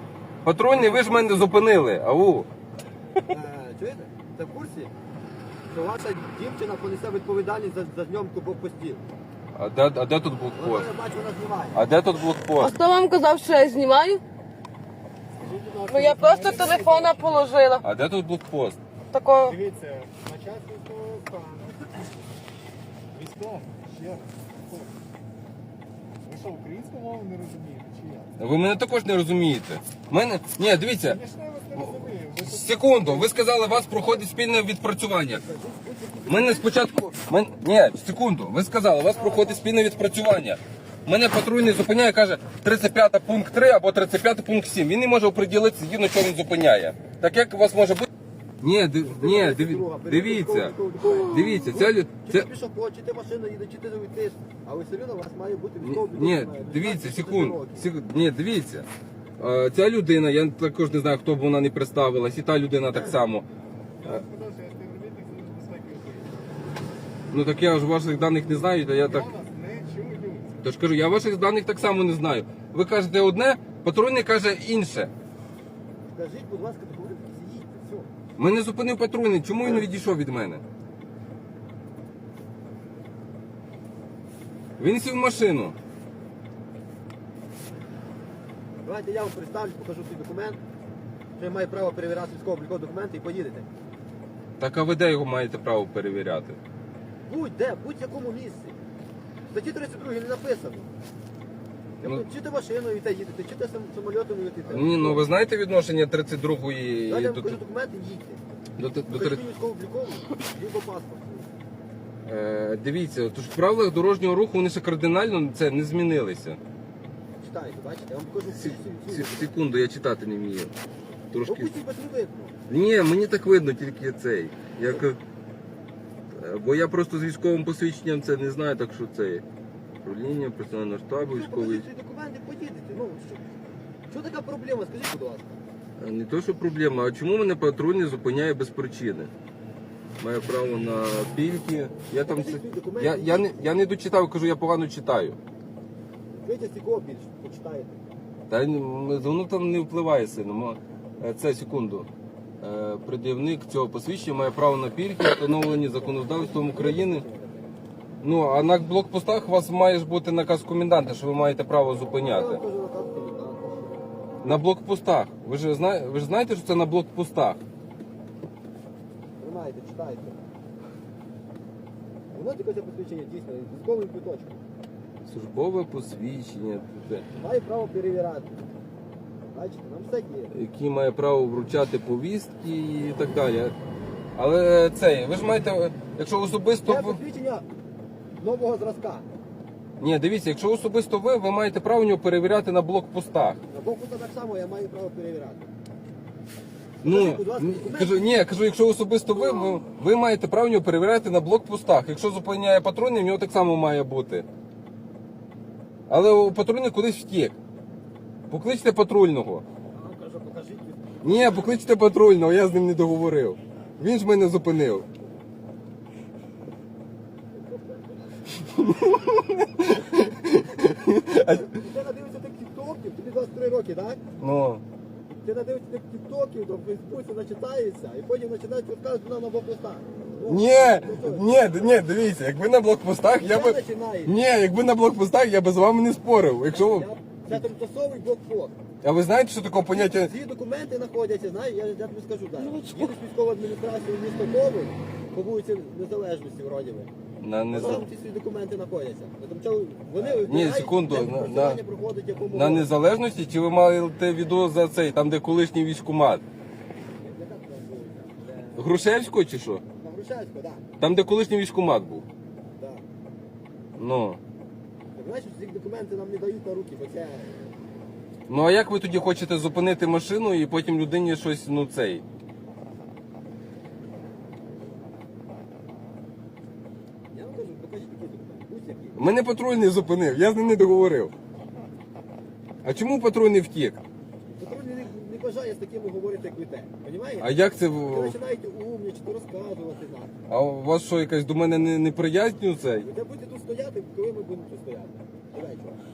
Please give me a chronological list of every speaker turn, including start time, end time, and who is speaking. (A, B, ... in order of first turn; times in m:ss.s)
0:00.4-0:02.5 A
0:00.7-0:01.5 B
0:03.2-0:04.9 B
0:05.7-0:09.0 B
0:09.5-0:10.9 A
0:10.6-0:11.8 B
0:11.7-0:12.8 A
0:12.6-0:14.2 C
0:15.4-0:17.5 D
0:15.9-0:17.8 C
0:17.8-0:18.8 A
0:19.1-0:19.6 C
0:19.4-0:21.8 D
0:23.1-0:24.9 D
0:26.2-0:28.4 D
0:28.4-0:31.2 A
0:31.0-0:34.0 D
0:31.8-0:35.4 A
0:35.3-0:36.8 B
0:36.3-0:48.1 A
0:39.2-0:39.6 B
0:48.6-0:52.5 A
0:49.1-0:57.9 B
0:55.8-0:58.9 A
0:59.4-1:03.4 A
1:02.9-1:03.2 B
1:04.0-1:06.3 D
1:07.3-1:09.3 A
1:09.0-1:10.6 D
1:10.6-1:15.1 A
1:16.1-1:18.1 B
1:18.4-1:20.6 A
1:24.8-1:25.8 A
1:28.8-1:30.6 B
1:31.4-1:33.7 B
1:34.6-1:36.6 A
1:37.3-1:38.8 B
1:39.5-1:40.9 B
1:42.0-1:45.3 B
1:44.7-1:47.6 A
1:47.1-1:48.4 B
1:48.8-1:49.4 A
1:49.1-1:51.5 B
1:52.2-1:56.6 A
1:57.4-1:59.5 B
1:58.5-2:00.7 A
2:01.3-2:01.8 A
2:01.4-2:02.5 B
2:02.7-2:05.2 A
2:06.3-2:09.4 A
2:10.0-2:11.9 A
2:11.2-2:13.4 B
2:14.1-2:15.6 B
2:16.0-2:19.3 A
2:20.2-2:25.4 A
2:22.2-2:23.6 B
2:26.3-2:28.0 B
2:28.5-2:32.1 A
2:32.6-2:37.2 A
2:35.5-2:37.7 B
2:38.2-2:42.6 A
2:42.2-2:44.2 B
2:44.4-2:47.6 A
2:49.4-2:50.4 B
2:52.3-2:54.6 B
2:55.2-2:57.2 A
2:57.4-2:58.6 B
2:59.5-3:00.5 B
3:00.5-3:03.8 A
3:04.4-3:07.2 A
3:06.8-3:07.6 B
3:08.4-3:09.3 B
3:10.0-3:13.6 A
3:13.7-3:15.7 B
3:17.0-3:18.2 B
3:17.0-3:24.5 A
3:26.1-3:27.6 A
3:28.5-3:29.6 A
3:29.9-3:31.8 B
3:31.2-3:35.1 A
3:38.6-3:41.8 A
3:41.4-3:44.2 B
3:44.4-3:44.8 A
3:45.3-3:52.0 B
3:50.5-3:57.7 A
3:53.3-3:54.4 B
3:56.7-3:58.8 B
3:59.0-4:00.3 A
3:59.9-4:07.1 B
4:02.6-4:03.2 A
4:07.4-4:08.1 A
4:07.7-4:12.9 B
4:10.2-4:11.8 A
4:12.5-4:16.4 A
4:17.2-4:19.0 B
4:18.8-4:19.8 A
4:20.0-4:20.8 B
4:21.0-4:22.3 A
4:22.8-4:23.0 B
4:24.0-4:24.4 A
4:25.2-4:27.7 B
4:28.5-4:32.2 A
4:37.3-4:39.2 B
4:39.2-4:41.3 A
4:42.8-4:44.0 A
4:44.5-4:47.5 B
4:47.4-4:48.4 A
4:48.1-4:50.4 B
4:50.5-4:53.1 A
4:53.0-4:56.0 B